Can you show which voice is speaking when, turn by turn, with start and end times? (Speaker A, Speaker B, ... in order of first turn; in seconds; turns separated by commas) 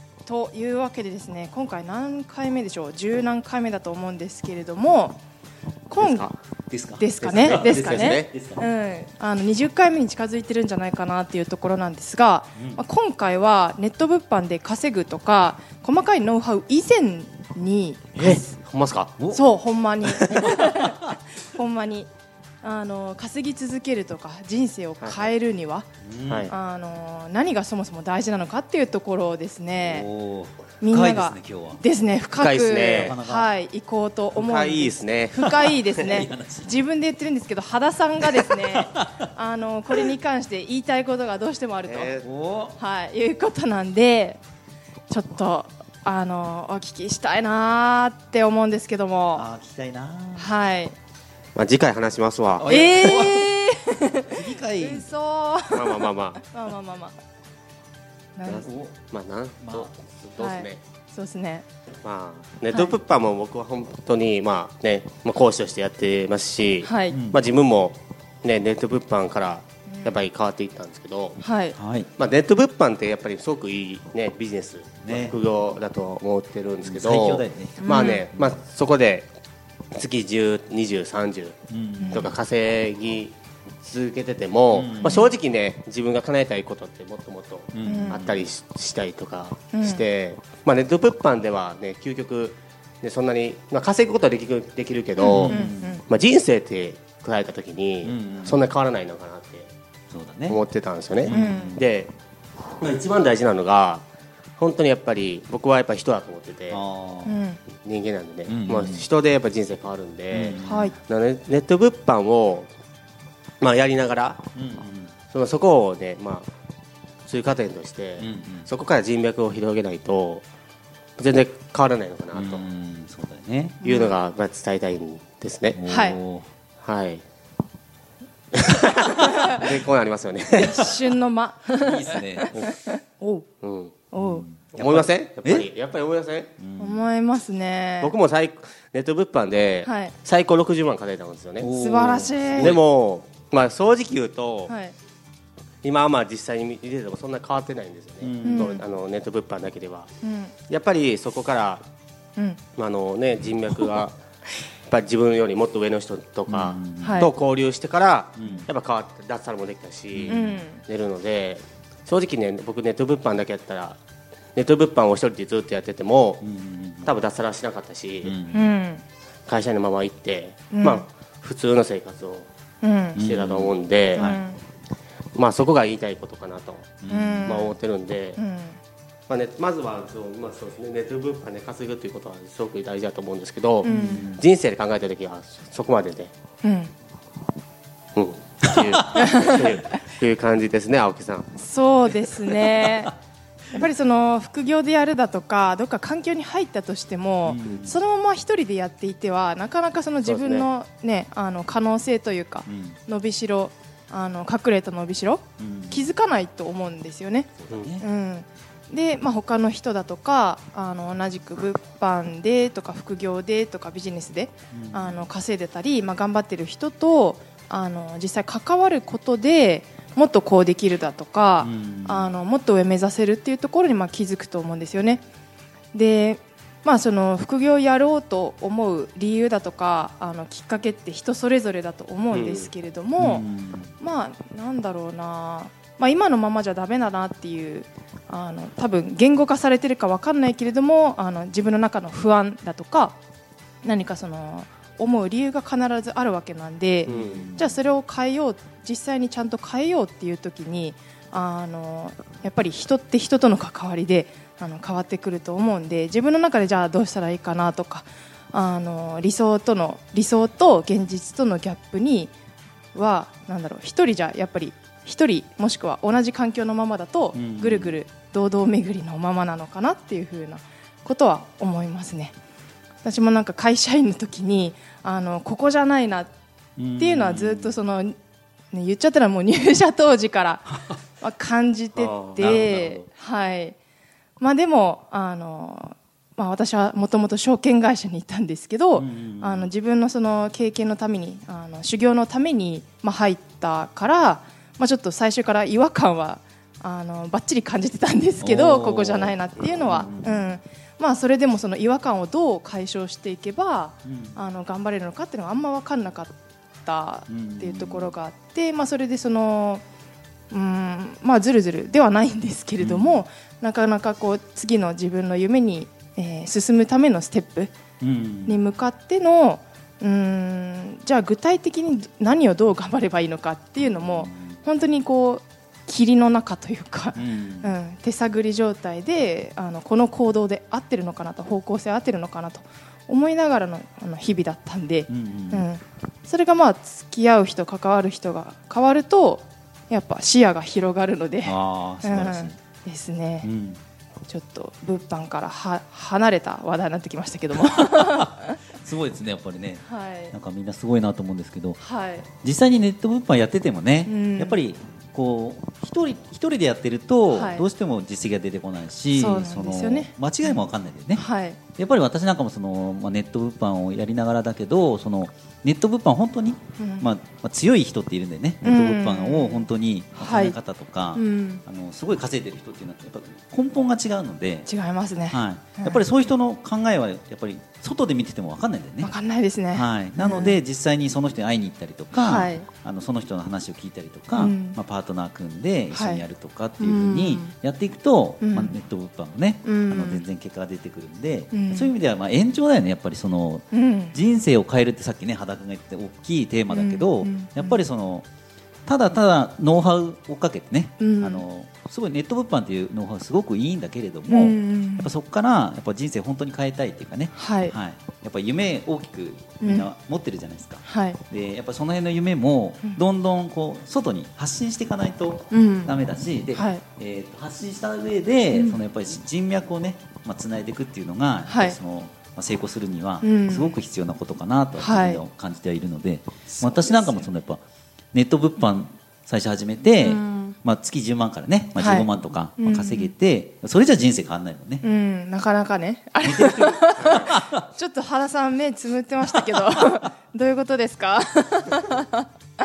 Speaker A: 0.2-5.2, Speaker A: 5.9-6.3, Speaker B: 6.0-6.3, Speaker C: 6.7-8.6, Speaker A: 7.0-18.4, Speaker B: 7.2-8.3, Speaker C: 12.6-12.8, Speaker C: 18.1-18.4, Speaker B: 18.2-19.1, Speaker A: 19.3-22.1, Speaker B: 20.1-20.5, Speaker C: 20.6-21.1, Speaker A: 22.6-25.9, Speaker B: 25.0-25.3, Speaker C: 26.0-26.5, Speaker A: 26.5-30.1, Speaker C: 29.8-31.8, Speaker A: 30.8-42.2, Speaker B: 32.4-33.2, Speaker C: 32.9-33.5, Speaker B: 34.3-36.2, Speaker C: 35.5-36.7, Speaker C: 38.3-39.2, Speaker B: 41.9-42.3, Speaker C: 42.2-42.8, Speaker A: 42.8-44.4, Speaker A: 45.1-49.5, Speaker C: 49.3-50.5, Speaker A: 50.4-50.9, Speaker B: 51.5-52.8, Speaker C: 52.6-53.6, Speaker A: 52.6-57.1, Speaker C: 54.3-55.0, Speaker B: 55.7-56.4, Speaker A: 58.4-58.7, Speaker B: 58.4-60.8, Speaker C: 58.6-58.9, Speaker C: 59.6-59.9, Speaker A: 60.4-61.6, Speaker B: 62.0-71.4, Speaker A: 62.7-63.0, Speaker A: 66.8-67.2, Speaker C: 67.1-67.4, Speaker A: 69.9-70.2, Speaker A: 71.4-71.8, Speaker C: 71.7-72.1, Speaker B: 72.2-79.3, Speaker C: 75.0-75.4, Speaker C: 76.8-78.5, Speaker A: 77.8-78.2, Speaker B: 79.9-81.6, Speaker C: 81.7-82.3, Speaker A: 82.0-82.3, Speaker B: 82.1-99.7, Speaker C: 84.7-85.3, Speaker C: 87.7-88.5, Speaker A: 87.8-88.2, Speaker A: 89.7-90.0, Speaker C: 95.2-96.0, Speaker A: 95.2-96.0, Speaker C: 98.0-98.6, Speaker C: 100.1-100.6, Speaker B: 100.5-102.1, Speaker C: 101.2-101.8, Speaker A: 101.3-101.8, Speaker B: 102.8-104.0, Speaker B: 104.6-106.8, Speaker C: 106.7-107.4, Speaker A: 107.2-107.6, Speaker B: 107.8-112.7, Speaker C: 108.5-109.0, Speaker C: 110.3-110.9, Speaker A: 110.6-111.0, Speaker B: 113.6-114.6, Speaker C: 114.5-115.1, Speaker B: 115.3-116.5, Speaker B: 117.2-120.4, Speaker C: 118.2-118.7, Speaker B: 121.2-122.6, Speaker C: 122.3-123.8, Speaker A: 123.8-124.2, Speaker B: 123.8-125.8, Speaker C: 125.7-126.5, Speaker A: 125.9-126.2, Speaker B: 126.8-127.2, Speaker B: 128.5-130.9, Speaker A: 129.2-129.6, Speaker A: 130.5-133.4, Speaker C: 131.8-132.6, Speaker B: 133.6-134.0, Speaker A: 134.1-134.4, Speaker C: 134.2-135.7, Speaker B: 134.7-136.5, Speaker C: 136.6-137.0, Speaker A: 136.8-138.1, Speaker B: 138.0-141.8, Speaker A: 139.8-140.1, Speaker C: 141.6-142.8, Speaker A: 141.8-142.8, Speaker B: 142.6-144.7, Speaker A: 144.7-144.9, Speaker B: 145.8-150.1, Speaker C: 148.2-148.7, Speaker A: 148.4-148.8, Speaker A: 150.2-150.5, Speaker B: 150.7-151.8, Speaker B: 152.8-154.2, Speaker B: 154.9-164.0, Speaker C: 156.5-157.3, Speaker A: 157.0-157.3, Speaker C: 158.4-158.7, Speaker C: 160.1-160.6, Speaker A: 160.3-160.8, Speaker B: 164.5-166.4, Speaker C: 166.4-167.1, Speaker B: 167.0-168.3, Speaker C: 168.2-168.7, Speaker A: 168.5-169.0, Speaker B: 169.5-172.4, Speaker A: 170.7-171.1, Speaker A: 172.8-173.2, Speaker C: 173.1-174.4, Speaker B: 173.2-174.4, Speaker A: 174.2-174.6, Speaker B: 175.3-178.4, Speaker C: 177.0-177.6, Speaker A: 177.1-177.7, Speaker A: 178.4-178.8, Speaker B: 179.3-186.3, Speaker A: 183.8-184.3, Speaker C: 183.8-184.4, Speaker A: 186.6-186.9, Speaker B: 188.1-191.5, Speaker C: 188.6-189.3, Speaker A: 189.1-189.6, Speaker A: 191.5-193.1, Speaker C: 192.6-192.9, Speaker A: 193.7-225.2, Speaker C: 197.4-198.0, Speaker B: 200.2-200.7, Speaker C: 202.7-203.0, Speaker C: 205.6-206.1, Speaker C: 207.6-208.1, Speaker C: 214.7-215.3, Speaker C: 221.6-222.3, Speaker A: 225.9-233.4, Speaker B: 232.3-232.7, Speaker C: 233.2-233.9, Speaker A: 234.0-243.2, Speaker A: 243.8-262.3, Speaker C: 247.1-247.8, Speaker B: 247.1-247.4, Speaker A: 262.9-272.3, Speaker C: 267.3-268.0, Speaker A: 273.0-276.3, Speaker C: 276.8-277.8, Speaker A: 277.0-278.1, Speaker A: 278.7-283.8, Speaker B: 281.9-283.1, Speaker A: 284.4-309.8, Speaker C: 288.9-289.7, Speaker C: 298.4-300.5, Speaker C: 304.0-304.4, Speaker C: 307.3-308.1, Speaker A: 310.5-317.7, Speaker C: 312.8-313.2, Speaker C: 318.0-318.6, Speaker A: 318.4-343.5, Speaker C: 323.8-324.6, Speaker C: 327.1-327.7, Speaker C: 335.1-335.7, Speaker C: 341.4-342.6, Speaker C: 343.4-343.8, Speaker A: 344.3-348.6, Speaker C: 347.6-351.8, Speaker A: 349.8-350.3, Speaker A: 351.8-352.3, Speaker C: 352.4-361.2, Speaker A: 354.0-354.6, Speaker A: 357.3-357.6, Speaker A: 359.1-360.6, Speaker A: 361.1-361.6, Speaker C: 361.8-374.7, Speaker A: 366.8-367.1, Speaker A: 368.6-370.6, Speaker A: 371.1-371.6, Speaker A: 374.6-376.0, Speaker C: 375.3-379.1, Speaker A: 379.0-380.6, Speaker C: 379.7-398.2, Speaker A: 382.1-382.7, Speaker A: 384.3-384.8, Speaker A: 385.9-386.2, Speaker A: 386.8-387.5, Speaker A: 388.4-388.8, Speaker A: 389.6-390.2, Speaker A: 391.5-391.9, Speaker A: 393.7-394.1, Speaker A: 396.7-397.8, Speaker C: 398.9-427.6, Speaker A: 401.0-401.4, Speaker A: 404.3-405.1, Speaker A: 407.3-407.8, Speaker A: 409.6-409.9, Speaker A: 410.8-411.2, Speaker A: 415.5-415.9, Speaker A: 416.5-416.8, Speaker A: 418.5-418.8, Speaker A: 421.4-421.8, Speaker A: 423.2-423.8, Speaker A: 424.8-425.2, Speaker A: 426.5-427.3, Speaker C: 428.1-434.8, Speaker A: 430.0-430.6, Speaker A: 431.8-433.1, Speaker A: 434.8-442.3, Speaker C: 436.2-437.6, Speaker B: 437.0-437.3, Speaker C: 439.6-439.9